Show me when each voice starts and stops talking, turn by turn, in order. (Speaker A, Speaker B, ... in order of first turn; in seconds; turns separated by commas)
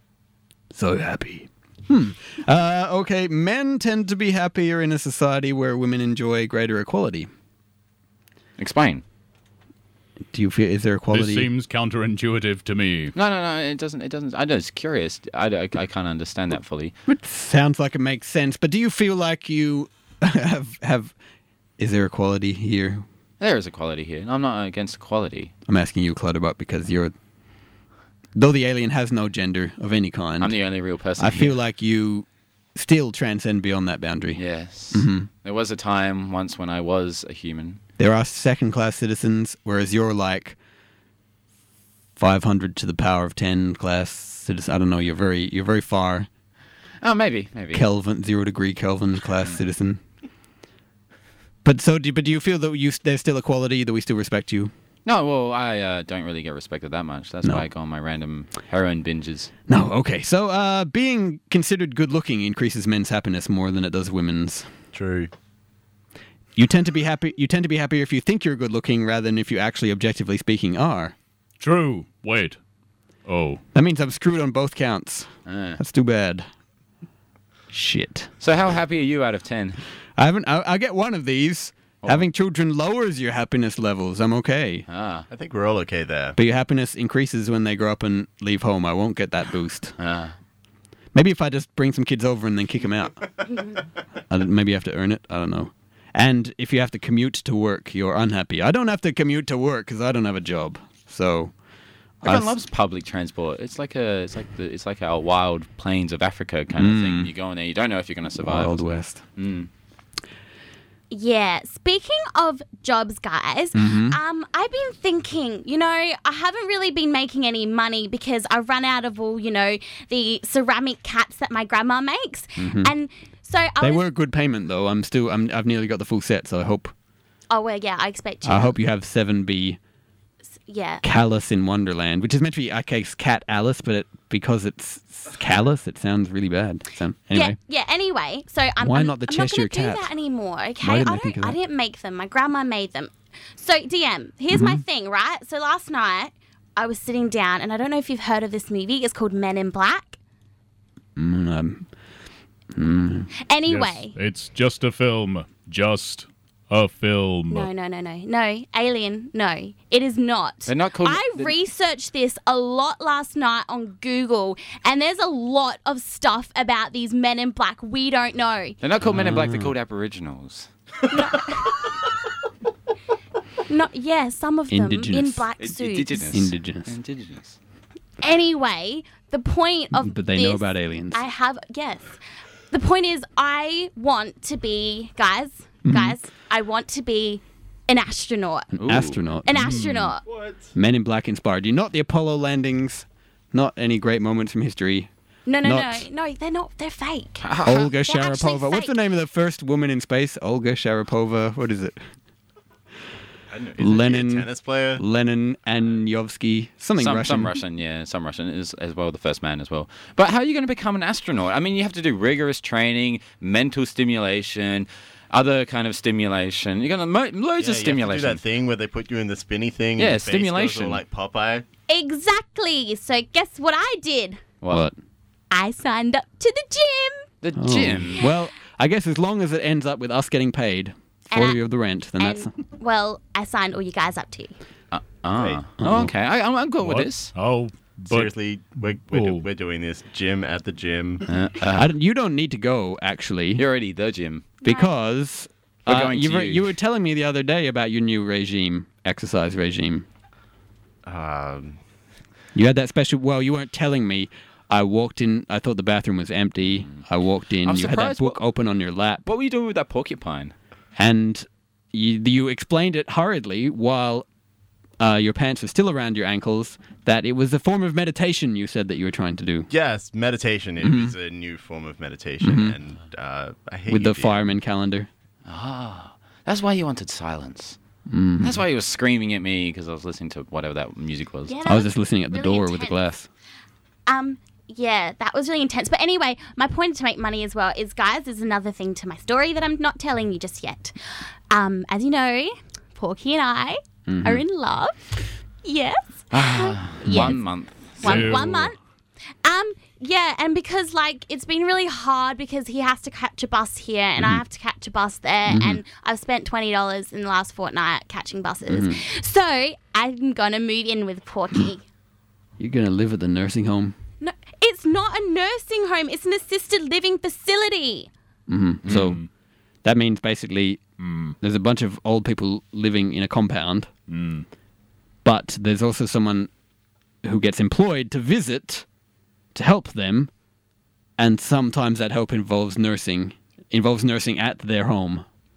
Speaker A: 0.7-7.3, Speaker B: 8.6-9.0, Speaker A: 10.3-11.5, Speaker C: 11.1-13.1, Speaker B: 13.2-17.0, Speaker A: 17.1-21.1, Speaker A: 21.8-23.1, Speaker B: 23.4-25.5, Speaker A: 25.7-27.1, Speaker A: 28.4-30.6, Speaker B: 30.4-31.6, Speaker A: 31.2-34.4, Speaker B: 34.4-37.8, Speaker A: 34.9-35.3, Speaker A: 38.0-40.6, Speaker A: 42.2-46.3, Speaker B: 47.0-47.9, Speaker A: 47.7-50.0, Speaker A: 51.6-54.7, Speaker B: 55.1-59.5, Speaker A: 59.7-64.7, Speaker D: 64.9-65.3, Speaker A: 66.6-71.2, Speaker C: 71.6-72.6, Speaker C: 73.3-73.6, Speaker A: 73.7-76.5, Speaker B: 75.5-75.8, Speaker A: 77.7-78.3, Speaker B: 78.4-79.8, Speaker A: 80.2-84.9, Speaker B: 84.9-85.3, Speaker D: 85.3-86.4, Speaker A: 86.4-90.0, Speaker B: 90.0-90.3, Speaker A: 91.1-93.2, Speaker A: 94.3-101.5, Speaker A: 102.2-102.6, Speaker B: 102.2-109.7, Speaker A: 106.8-107.3, Speaker A: 108.4-109.2, Speaker E: 111.1-124.0, Speaker A: 113.8-114.2, Speaker A: 122.6-122.9, Speaker A: 123.8-126.9, Speaker E: 127.5-128.8, Speaker A: 128.4-129.8, Speaker E: 130.7-131.0, Speaker A: 131.0-137.6, Speaker E: 137.3-150.2, Speaker A: 138.8-140.1, Speaker A: 140.8-141.6, Speaker A: 144.5-144.8, Speaker A: 151.2-151.9, Speaker A: 152.8-153.3, Speaker E: 153.5-154.2, Speaker C: 153.7-157.7, Speaker E: 157.5-168.8, Speaker B: 160.7-161.6, Speaker B: 168.8-170.7, Speaker A: 169.1-169.7, Speaker E: 171.1-171.9, Speaker E: 173.7-176.3, Speaker A: 174.7-175.5, Speaker B: 175.6-177.6, Speaker A: 176.3-176.9, Speaker E: 178.2-182.2, Speaker A: 179.9-181.2, Speaker E: 182.7-188.7, Speaker A: 185.8-186.2, Speaker A: 188.8-189.9, Speaker B: 188.8-189.2, Speaker E: 189.4-190.2, Speaker C: 189.6-190.1, Speaker D: 190.2-190.7, Speaker A: 190.8-195.1, Speaker E: 195.5-198.9, Speaker A: 195.6-196.1, Speaker B: 197.4-197.9, Speaker A: 197.6-202.0, Speaker D: 203.5-205.0, Speaker A: 203.8-207.5, Speaker B: 207.0-218.4, Speaker D: 217.6-221.7, Speaker B: 220.0-221.0, Speaker E: 221.9-224.4, Speaker A: 224.7-224.9, Speaker E: 225.5-227.2, Speaker B: 227.4-228.3, Speaker A: 227.6-232.5, Speaker E: 231.3-231.6, Speaker E: 232.2-234.5, Speaker B: 234.9-237.3, Speaker D: 235.4-235.6, Speaker A: 235.8-236.1, Speaker C: 236.8-238.3, Speaker D: 238.1-241.2, Speaker C: 239.1-239.4, Speaker B: 241.3-241.9, Speaker A: 241.8-243.6, Speaker B: 243.6-244.5, Speaker E: 244.6-244.9, Speaker A: 244.6-250.1, Speaker B: 245.9-246.7, Speaker D: 251.1-251.8, Speaker A: 252.6-259.2, Speaker B: 257.6-258.4, Speaker B: 259.2-260.5, Speaker A: 261.0-264.3, Speaker A: 265.0-269.7, Speaker D: 269.7-274.5, Speaker A: 270.8-271.1, Speaker A: 272.4-272.8, Speaker A: 273.9-275.1, Speaker B: 275.5-277.8, Speaker A: 278.1-278.6, Speaker B: 278.4-281.6, Speaker E: 281.5-283.0, Speaker A: 281.7-283.3, Speaker E: 284.1-291.0, Speaker E: 291.5-295.0, Speaker A: 294.1-294.4, Speaker E: 295.6-297.5, Speaker B: 296.3-298.5, Speaker C: 298.0-298.7, Speaker E: 298.0-298.8, Speaker E: 299.4-311.8, Speaker A: 305.5-305.8, Speaker A: 308.7-309.0, Speaker A: 312.6-314.0, Speaker E: 314.2-318.1, Speaker A: 318.5-319.2, Speaker C: 318.9-319.2, Speaker A: 319.8-320.8, Speaker C: 321.0-321.4, Speaker A: 321.4-323.9, Speaker C: 324.1-324.5, Speaker A: 325.2-326.5, Speaker A: 327.2-328.9, Speaker A: 329.5-330.3, Speaker A: 331.2-335.3